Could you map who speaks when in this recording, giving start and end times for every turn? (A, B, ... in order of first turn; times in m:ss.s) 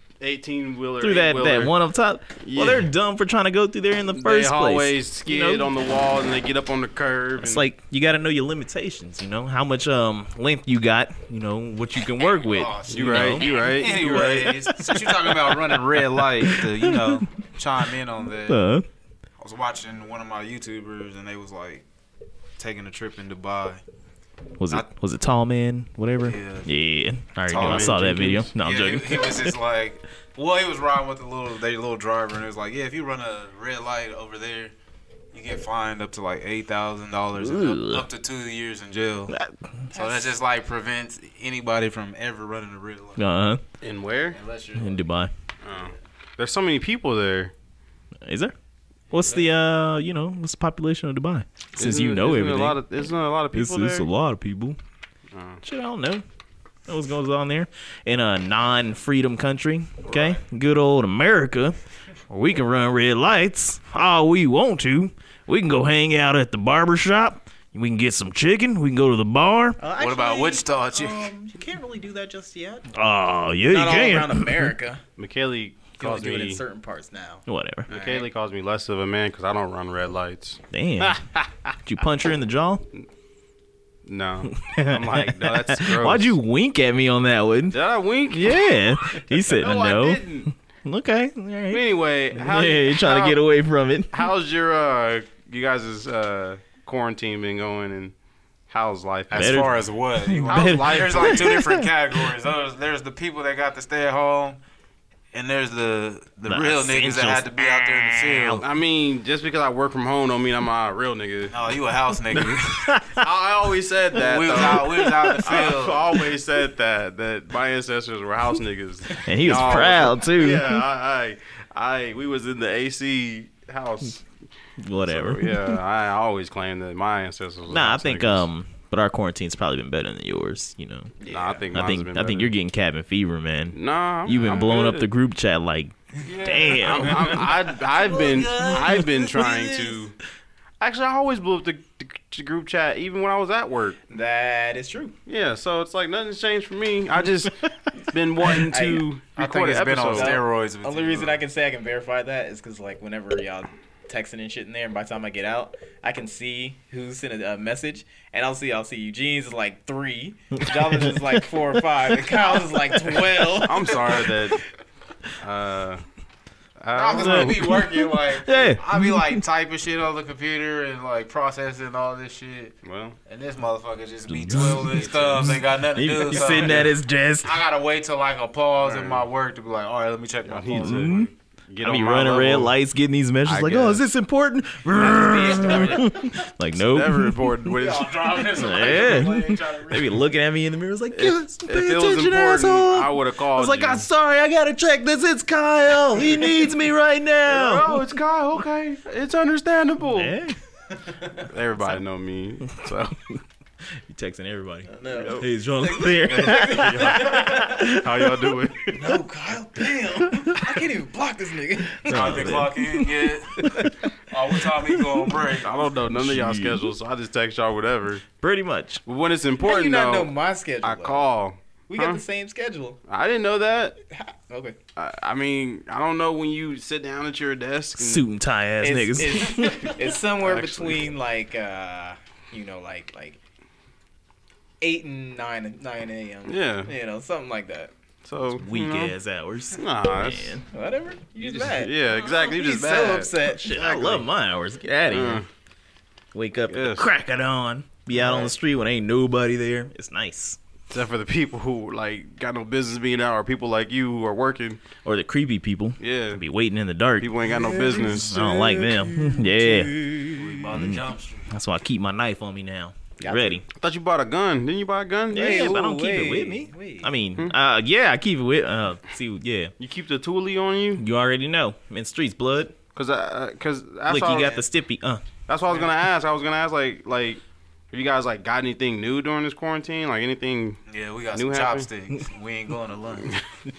0:00.2-0:01.7 A
0:01.0-0:05.7 B
0:02.4-0:02.9 A
0:04.1-0:07.7 A
0:07.4-0:13.7 B
0:12.4-0:18.6 C
0:12.9-0:14.7 A
0:14.8-0:17.2 B
0:18.5-0:18.9 B
0:19.4-0:21.8 C
0:22.6-0:23.8 C
0:24.6-0:29.6 B
0:26.2-0:26.7 C
0:27.5-0:28.1 C
0:27.5-0:28.5 A
0:28.6-0:34.7 C
0:35.3-0:39.4 C
0:37.4-0:38.1 B
0:39.3-0:39.9 B
0:39.9-0:43.2 C
0:40.0-0:40.3 D
0:43.2-0:43.6 B
0:43.8-0:44.4 A
0:44.3-0:45.0 C
0:44.8-0:45.3 B
0:45.6-0:47.5 A
0:48.2-0:48.5 B
0:49.1-0:52.8 B
0:51.8-0:54.1 A
0:53.5-0:54.8 B
0:55.3-0:55.6 A
0:55.6-0:56.2 B
0:56.9-1:01.8 B
1:00.1-1:00.4 C
1:02.3-1:09.8 B
1:09.8-1:12.9 D
1:10.0-1:11.3 C
1:12.9-1:14.7 B
1:13.7-1:15.0 D
1:15.2-1:16.6 A
1:16.0-1:18.3 D
1:17.5-1:17.9 B
1:17.9-1:21.7 A
1:20.7-1:21.2 B
1:21.9-1:22.8 B
1:24.0-1:26.4 A
1:24.5-1:31.8 B
1:27.7-1:30.5 A
1:31.7-1:33.4 A
1:32.3-1:34.3 B
1:34.1-1:38.1 A
1:38.7-1:39.6 A
1:39.3-1:44.6 C
1:39.3-1:41.9 B
1:40.5-1:41.7 A
1:45.3-1:48.6 C
1:46.5-1:48.6 B
1:48.6-1:51.6 A
1:51.5-1:52.9 C
1:52.4-2:04.2 A
1:52.9-1:53.2 B
1:54.1-1:56.2 C
1:59.2-2:00.8 B
2:04.8-2:05.8 B
2:05.0-2:08.5 A
2:07.7-2:11.2 B
2:11.2-2:11.6 D
2:11.2-2:12.5 A
2:11.7-2:17.4 B
2:13.7-2:15.1 A
2:16.2-2:19.9 C
2:16.8-2:20.2 A
2:18.1-2:18.7 D
2:18.8-2:19.1 B
2:20.8-2:24.0 A
2:24.1-2:25.2 D
2:25.3-2:30.4 A
2:28.7-2:29.1 D
2:29.4-2:31.4 C
2:30.1-2:44.3 D
2:40.7-2:41.1 B
2:43.6-2:44.6 A
2:45.4-2:46.0 A
2:46.8-2:47.9 A
2:46.9-3:01.2 C
2:47.2-2:49.4 B
2:52.8-2:53.2 A
2:54.3-2:57.6 B
2:54.9-2:55.3 A
2:56.5-2:56.9 A
2:58.8-2:59.2 A
3:00.4-3:02.7 A
3:00.8-3:07.7 B
3:03.4-3:04.1 A
3:05.0-3:06.1 D
3:06.8-3:08.8 A
3:07.7-3:10.2 C
3:08.6-3:18.2 B
3:11.1-3:14.1 A
3:17.5-3:20.3 A
3:20.0-3:20.6 B
3:21.4-3:23.2 A
3:23.8-3:28.6 B
3:24.9-3:27.8 D
3:25.1-3:25.5 A
3:26.2-3:29.0 A
3:28.9-3:32.7 D
3:30.3-3:30.7 B
3:32.0-3:32.9 B
3:32.0-3:33.8 C
3:33.6-3:33.9 B
3:34.3-3:35.8 C
3:35.6-3:38.2 A
3:36.1-3:36.9 B
3:38.4-3:39.0 B
3:39.1-3:42.2 A
3:39.6-3:41.3 D
3:41.9-3:43.0 D
3:43.1-3:44.0 A
3:44.1-3:44.8 D
3:45.0-3:48.2 A
3:48.0-3:49.9 B
3:48.8-3:53.4 D
3:50.4-3:51.1 A
3:54.8-3:57.9 D
3:56.5-3:56.9 A
3:58.2-3:59.2 A
3:58.5-4:00.6 B
3:59.7-4:00.6 A
4:00.6-4:04.3 D
4:01.6-4:03.3 A
4:03.5-4:05.4 B
4:05.1-4:05.5 A
4:06.3-4:10.6 B
4:06.7-4:07.1 A
4:08.2-4:08.5 D
4:10.9-4:14.8 A
4:15.0-4:23.6 B
4:16.0-4:16.4 A
4:17.2-4:18.4 A
4:17.6-4:20.1 D
4:20.4-4:21.5 C
4:23.2-4:23.6 D
4:23.7-4:25.8 A
4:25.3-4:29.7 B
4:25.3-4:27.1 D
4:29.8-4:31.0 A
4:31.0-4:32.8 B
4:32.9-4:34.6 A
4:34.1-4:35.4 B
4:35.5-4:40.8 A
4:40.9-4:43.4 C
4:41.3-4:41.9 A